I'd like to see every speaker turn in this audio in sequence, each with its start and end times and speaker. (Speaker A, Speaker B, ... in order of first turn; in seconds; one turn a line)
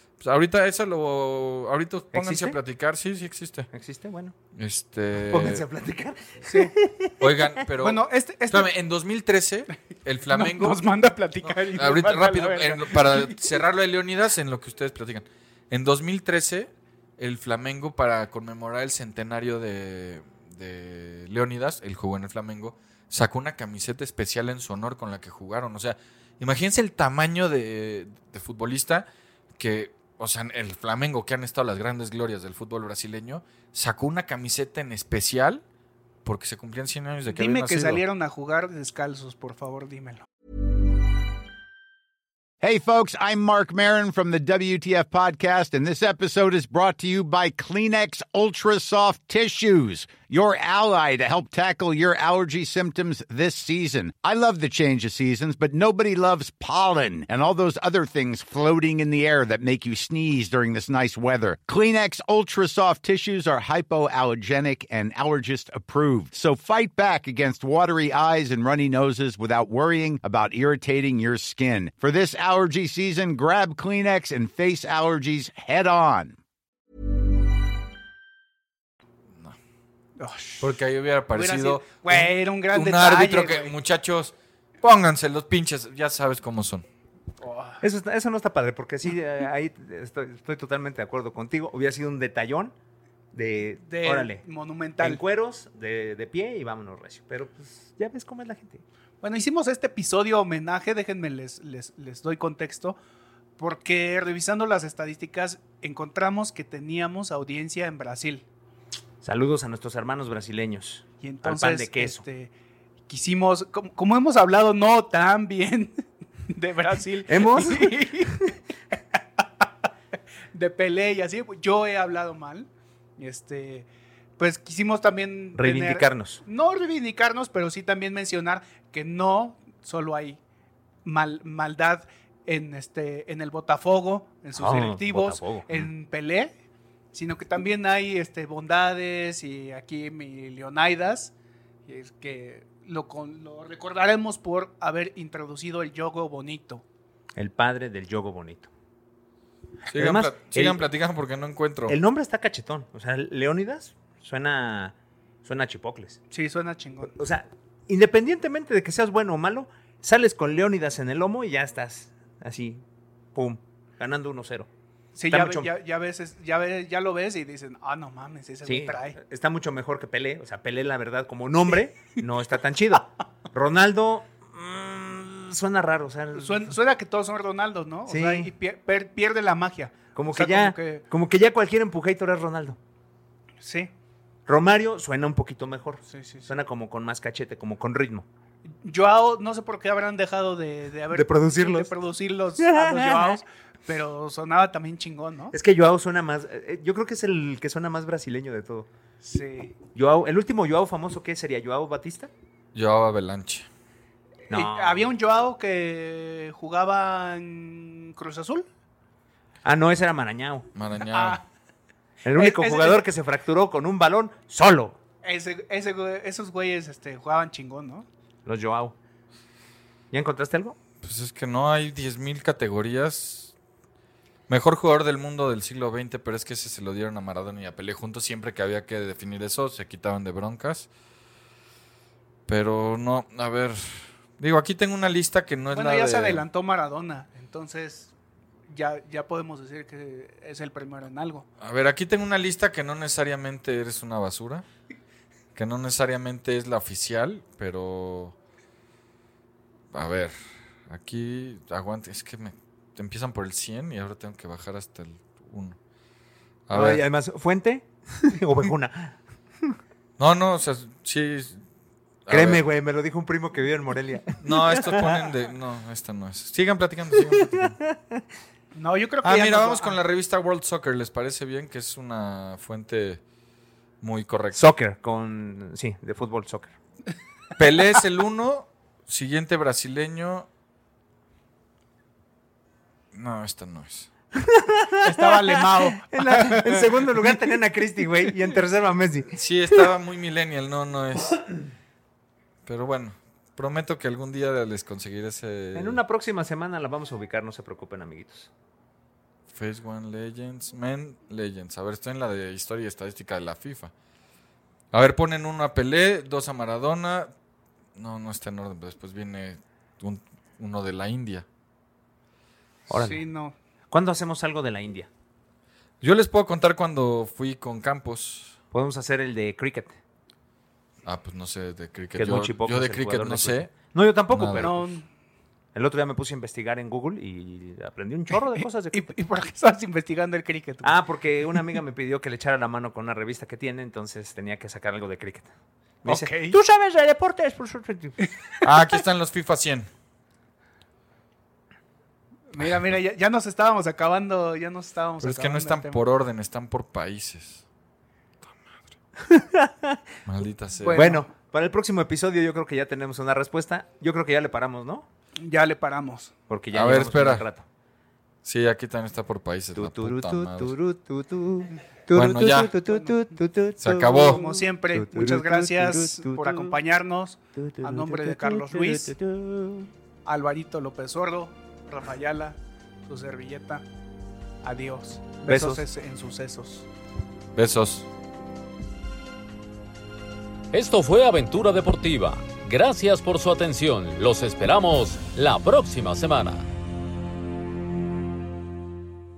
Speaker A: 0.2-3.7
Speaker B: 2.1-2.6
Speaker B: 3.7-4.3
Speaker A: 4.5-5.6
Speaker B: 5.3-7.5
Speaker C: 6.5-6.7
Speaker A: 7.2-10.8
Speaker C: 7.8-8.7
Speaker C: 10.2-13.4
Speaker A: 11.4-35.6
Speaker A: 36.2-38.0
Speaker C: 37.3-40.2
Speaker D: 42.6-76.4
Speaker C: 80.2-80.7
Speaker A: 80.6-86.8
Speaker C: 81.3-83.7
Speaker C: 87.4-87.8
Speaker B: 87.8-92.7
Speaker B: 93.3-94.4
Speaker C: 93.9-95.2
Speaker B: 95.0-98.8
Speaker C: 99.2-103.0
Speaker C: 103.6-108.4
Speaker B: 109.2-112.2
Speaker C: 111.2-112.5
Speaker C: 113.1-119.4
Speaker B: 117.3-118.3
Speaker C: 120.5-123.9
Speaker C: 124.4-130.4
Speaker B: 125.5-126.4
Speaker C: 131.0-136.5
Speaker B: 134.5-135.9
Speaker C: 137.1-141.3
Speaker C: 141.9-146.8
Speaker B: 147.3-148.7
Speaker B: 149.9-150.8
Speaker A: 149.9-152.0
Speaker B: 151.9-156.2
Speaker C: 156.3-157.1
Speaker B: 157.1-162.8
Speaker B: 163.3-164.7
Speaker C: 165.1-169.2
Speaker B: 165.3-165.7
Speaker B: 168.6-176.8
Speaker C: 176.3-181.0
Speaker B: 178.1-178.5
Speaker B: 180.1-182.8
Speaker C: 183.6-183.9
Speaker B: 184.5-188.2
Speaker C: 186.1-186.5
Speaker C: 188.8-195.5
Speaker B: 191.1-191.9
Speaker B: 192.6-193.4
Speaker B: 195.5-198.9
Speaker C: 199.2-199.8
Speaker B: 199.9-202.3
Speaker A: 202.7-203.7
Speaker B: 204.5-205.1
Speaker C: 204.5-208.7
Speaker B: 209.6-210.7
Speaker A: 210.7-211.4
Speaker C: 211.0-211.4
Speaker B: 212.2-215.0
Speaker C: 212.3-213.0
Speaker C: 215.2-218.1
Speaker B: 218.4-218.9
Speaker B: 220.1-220.8
Speaker A: 221.0-223.5
Speaker A: 224.5-230.9
Speaker A: 232.5-236.4
Speaker C: 235.7-238.1
Speaker C: 238.7-241.4
Speaker A: 241.6-244.6
Speaker A: 245.5-248.3
Speaker A: 249.9-250.3
Speaker A: 250.9-255.8
Speaker A: 256.7-257.0
Speaker B: 256.7-259.7
Speaker A: 260.2-261.6
Speaker A: 262.2-262.6
Speaker B: 262.3-265.2
Speaker A: 264.4-267.8
Speaker B: 267.3-268.2
Speaker C: 268.7-270.0
Speaker A: 269.2-273.2
Speaker A: 274.0-274.6
Speaker B: 274.5-276.7
Speaker A: 277.6-280.5
Speaker A: 283.1-284.1
Speaker B: 284.3-289.3
Speaker C: 285.0-287.4
Speaker A: 289.3-291.4
Speaker A: 292.6-296.0
Speaker B: 295.7-298.5
Speaker A: 299.5-303.9
Speaker A: 304.9-307.3
Speaker A: 307.9-311.4
Speaker B: 312.9-313.2
Speaker C: 312.9-313.5
Speaker B: 313.9-315.1
Speaker A: 316.0-318.6
Speaker B: 318.7-320.0
Speaker A: 321.0-323.7
Speaker B: 322.1-324.9
Speaker A: 324.3-324.7
Speaker C: 324.6-325.1
Speaker B: 325.7-329.1
Speaker C: 328.6-331.0
Speaker B: 330.8-335.5
Speaker B: 336.0-338.2
Speaker C: 336.0-336.6
Speaker A: 338.6-339.9
Speaker C: 342.5-346.0
Speaker A: 345.2-347.6
Speaker A: 348.4-348.7
Speaker B: 349.2-350.0
Speaker A: 350.2-351.1
Speaker C: 350.8-351.3
Speaker B: 350.9-355.1
Speaker C: 355.4-356.3
Speaker B: 356.5-357.6
Speaker A: 356.7-357.4
Speaker A: 358.4-360.7
Speaker B: 359.7-366.8
Speaker A: 362.1-362.7
Speaker C: 362.8-363.2
Speaker A: 363.8-364.4
Speaker C: 364.0-369.1
Speaker B: 367.6-369.9
Speaker C: 370.2-372.6
Speaker C: 373.1-373.8
Speaker C: 374.6-376.9
Speaker B: 375.4-375.8
Speaker A: 377.5-378.1
Speaker E: 380.7-386.7